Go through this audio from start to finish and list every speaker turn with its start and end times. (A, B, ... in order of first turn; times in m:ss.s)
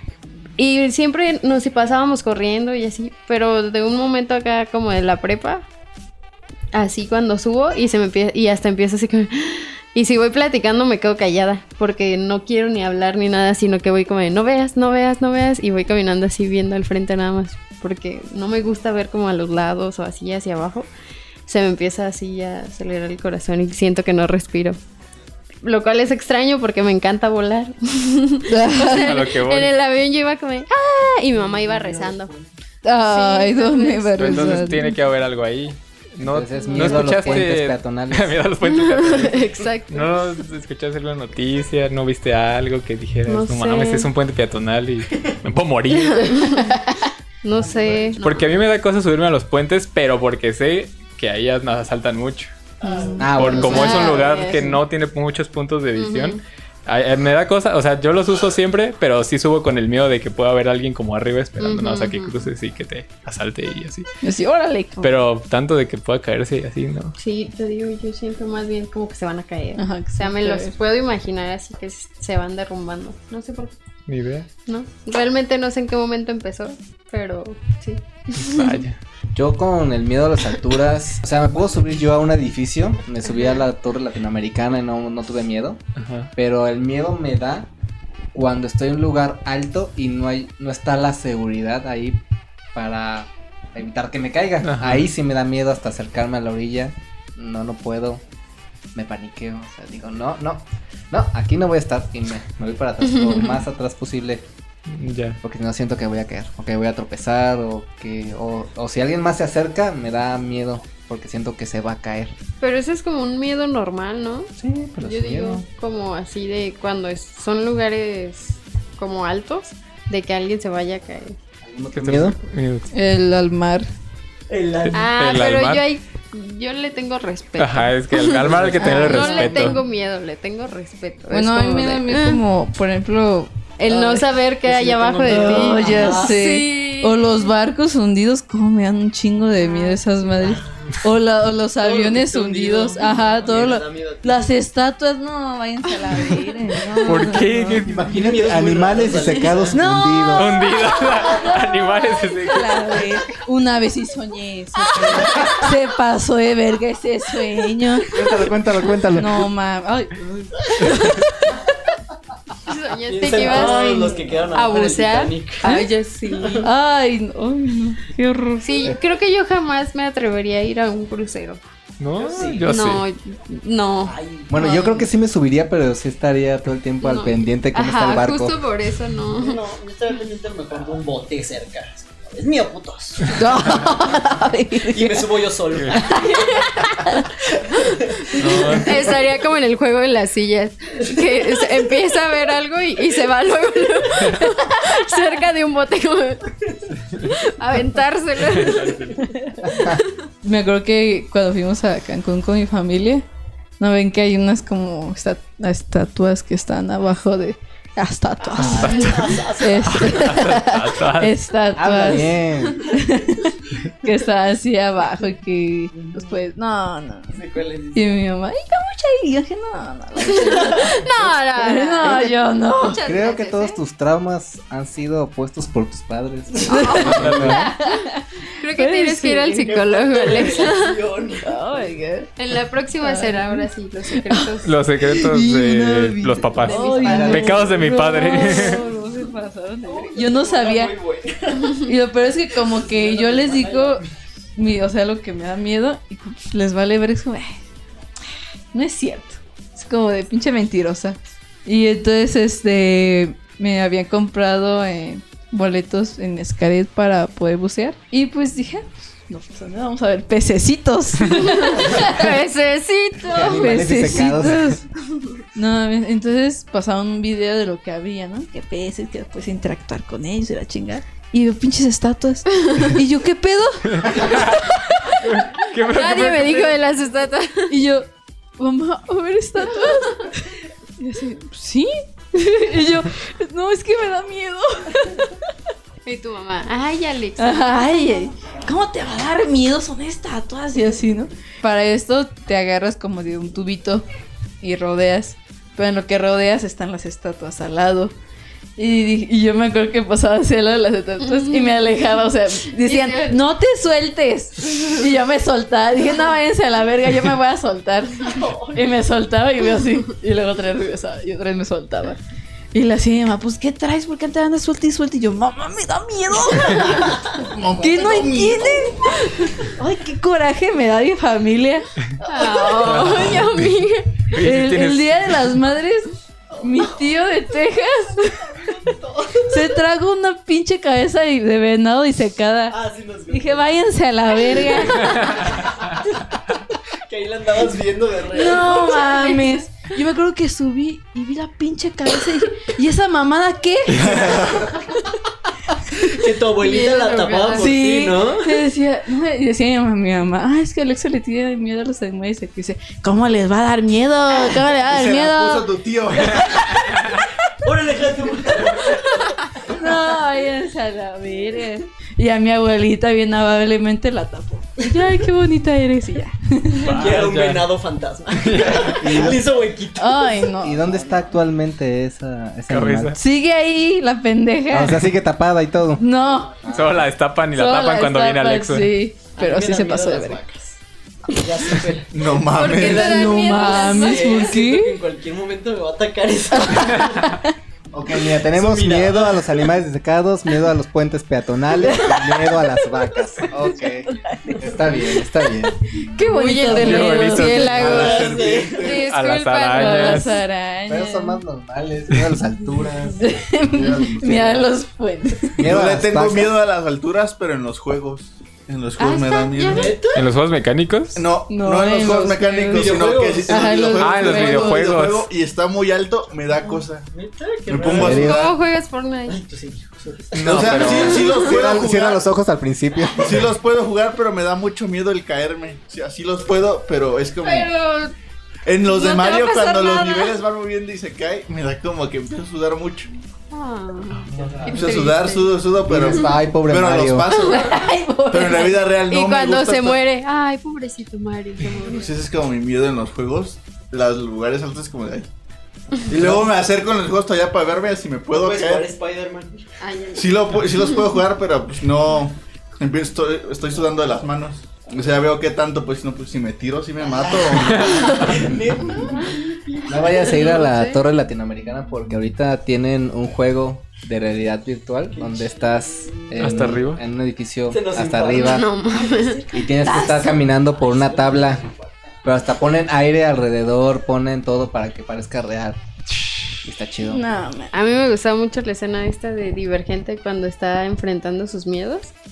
0:00.6-0:05.7 A
0:06.7-0:20.9 A
0:21.5-0:24.8 A
0:25.6-0:32.3 A
0:28.5-0:29.1 B
0:28.9-0:29.7 C
0:31.4-0:32.5 D
0:32.8-0:34.9 B
0:33.0-0:34.8 A
0:34.2-0:46.6 C
0:36.2-0:38.4 E
0:36.6-0:37.4 A
0:38.6-0:40.2 A
0:43.3-0:44.1 A
0:45.9-0:48.5 A
0:47.6-0:48.2 D
0:48.2-0:52.5 C
0:52.8-0:53.3 D
0:52.8-0:54.8 B
0:52.9-0:54.2 A
0:53.2-0:54.1 E
0:53.3-1:04.1 C
0:56.0-0:56.4 A
1:01.6-1:02.4 A
1:04.2-1:05.2 B
1:05.0-1:07.2 C
1:07.2-1:13.8 A
1:09.8-1:10.8 B
1:14.1-1:14.5 C
1:14.7-1:18.8 A
1:18.4-1:19.0 C
1:19.4-1:25.8 E
1:26.0-1:26.3 C
1:26.4-1:27.7 E
1:28.3-1:32.2 E
1:32.8-1:38.2 E
1:34.6-1:35.1 C
1:39.0-1:44.5 E
1:43.0-1:43.6 A
1:44.9-1:45.4 C
1:45.4-1:52.4 E
1:52.6-2:01.4 A
1:54.6-1:55.7 E
2:01.6-2:02.4 E
2:02.0-2:02.9 C
2:02.9-2:03.9 B
2:04.5-2:05.1 D
2:04.8-2:05.8 C
2:05.0-2:12.4 A
2:07.6-2:09.8 C
2:08.6-2:09.5 D
2:08.8-2:09.7 B
2:11.3-2:13.5 B
2:13.8-2:17.5 A
2:13.9-2:16.4 D
2:15.3-2:27.8 B
2:19.6-2:20.0 A
2:20.4-2:21.0 D
2:21.8-2:24.6 D
2:27.0-2:28.1 C
2:27.8-2:30.6 E
2:28.1-2:29.8 D
2:29.7-2:30.7 B
2:30.4-2:33.1 C
2:31.2-2:38.2 B
2:38.1-2:39.5 E
2:39.1-2:41.5 B
2:42.6-2:46.7 A
2:43.1-2:46.7 D
2:43.3-2:44.2 B
2:46.6-2:48.9 B
2:48.6-2:51.6 A
2:52.0-2:53.1 C
2:52.2-2:52.8 D
2:52.7-2:54.2 A
2:54.0-2:54.5 D
2:54.5-2:58.6 E
2:54.6-2:55.0 B
2:57.0-2:59.6 A
2:59.3-3:03.8 D
3:03.3-3:05.3 B
3:04.8-3:06.3 D
3:05.7-3:06.0 C
3:05.9-3:07.3 B
3:08.0-3:08.7 D
3:08.4-3:09.0 C
3:08.4-3:19.2 A
3:18.5-3:19.2 C
3:19.3-3:19.6 B
3:19.6-3:20.0 E
3:19.7-3:20.0 A
3:20.4-3:23.2 B
3:23.8-3:37.4 B
3:28.4-3:30.3 D
3:28.6-3:31.3 C
3:31.8-3:32.9 E
3:35.9-3:36.3 D
3:37.3-3:38.2 D
3:37.9-3:43.0 B
3:40.5-3:42.3 A
3:42.8-3:43.8 A
3:43.0-3:47.7 E
3:46.7-3:47.9 A
3:46.7-3:49.7 B
3:47.0-3:47.7 C
3:48.6-3:51.0 A
3:49.6-3:51.6 D
3:51.4-3:52.3 B
3:52.4-3:54.7 A
3:53.0-4:01.0 B
3:54.6-3:58.8 C
3:56.6-3:57.8 A
3:57.1-3:57.5 E
3:59.8-4:01.9 D
4:01.8-4:04.0 B
4:02.5-4:04.1 D
4:04.6-4:07.6 B
4:08.7-4:22.3 B
4:21.3-4:24.2 A
4:23.3-4:24.8 E
4:23.4-4:24.8 B
4:25.6-4:35.2 B
4:33.9-4:36.7 C
4:35.8-4:37.7 A
4:37.7-4:45.4 B
4:46.0-4:47.8 A
4:47.4-4:54.0 B
4:54.6-4:58.1 B
4:58.8-5:12.2 B
5:01.2-5:01.8 A
5:02.7-5:03.4 A
5:08.2-5:08.8 D
5:12.7-5:17.2 B
5:17.0-5:17.4 D
5:17.4-5:19.0 F
5:17.8-5:21.9 B
5:22.2-5:23.3 D
5:22.2-5:24.2 A
5:22.8-5:23.8 C
5:24.3-5:25.5 C
5:24.4-5:28.5 B
5:26.5-5:27.0 D
5:28.2-5:29.8 D
5:29.5-5:32.8 B
5:32.7-5:33.7 D
5:33.3-5:35.6 B
5:34.5-5:35.9 D
5:37.1-5:38.8 D
5:38.3-5:45.1 B
5:38.9-5:39.6 A
5:43.9-5:44.8 F
5:46.0-5:48.6 D
5:46.6-5:47.8 A
5:47.5-5:55.7 B
5:54.8-5:56.8 F
5:56.3-5:57.1 D
5:57.6-5:59.8 D
5:58.8-5:59.1 B
5:59.6-6:07.1 B
6:06.8-6:07.7 C
6:06.8-6:11.2 D
6:08.3-6:09.3 C
6:09.0-6:09.4 E
6:10.0-6:11.1 B
6:10.6-6:13.2 E
6:12.7-6:13.2 C
6:13.2-6:15.1 B
6:14.7-6:16.0 E
6:16.0-6:16.5 B
6:16.2-6:16.7 D
6:16.6-6:17.1 E
6:16.7-6:18.9 C
6:17.5-6:20.4 B
6:19.4-6:20.8 D
6:21.3-6:22.1 D
6:22.1-6:23.3 F
6:22.5-6:24.5 A
6:22.7-6:27.3 D
6:22.9-6:25.0 B
6:26.6-6:27.5 B
6:28.0-6:35.8 E
6:28.2-6:29.7 D
6:31.8-6:32.9 B
6:34.1-6:38.1 B
6:36.2-6:40.4 A
6:36.6-6:38.0 C
6:37.7-6:39.1 F
6:37.9-6:38.8 D
6:38.9-6:40.4 C
6:39.7-6:41.4 B
6:40.9-6:44.7 E
6:43.1-6:45.6 B
6:45.6-6:46.5 E
6:45.6-6:50.0 F
6:49.0-6:49.9 A
6:49.7-6:50.2 D
6:50.1-6:51.3 C
6:51.2-6:57.1 F
6:51.5-6:54.9 B
6:52.7-6:53.9 D
6:54.0-6:55.3 C
6:56.6-6:58.4 D
6:57.7-6:58.6 F
6:57.9-6:58.5 E
6:58.2-6:59.4 A
6:59.3-7:01.0 D
7:00.3-7:01.3 C
7:00.4-7:02.2 F
7:01.0-7:01.6 A
7:01.4-7:03.5 E
7:03.2-7:07.7 F
7:07.4-7:08.1 A
7:08.7-7:13.1 F
7:08.8-7:10.4 A
7:13.5-7:15.5 A
7:14.3-7:14.9 D
7:14.6-7:20.0 F
7:15.8-7:17.3 E
7:17.4-7:18.8 B
7:19.1-7:22.1 A
7:21.8-7:25.3 F
7:26.1-7:28.9 F
7:28.3-7:29.6 D
7:29.8-7:30.8 A
7:30.1-7:38.3 F
7:37.1-7:40.6 D
7:37.7-7:38.3 C
7:39.9-7:48.7 E
7:40.3-7:41.0 A
7:45.1-7:46.7 D
7:46.4-7:47.0 C
7:47.7-7:50.1 D
7:48.4-7:49.5 A
7:49.5-7:51.6 E
7:49.8-7:50.4 B
7:50.7-7:52.2 D
7:52.2-7:55.8 E
7:56.6-7:57.2 E
7:57.1-7:57.7 B
7:57.7-8:02.1 A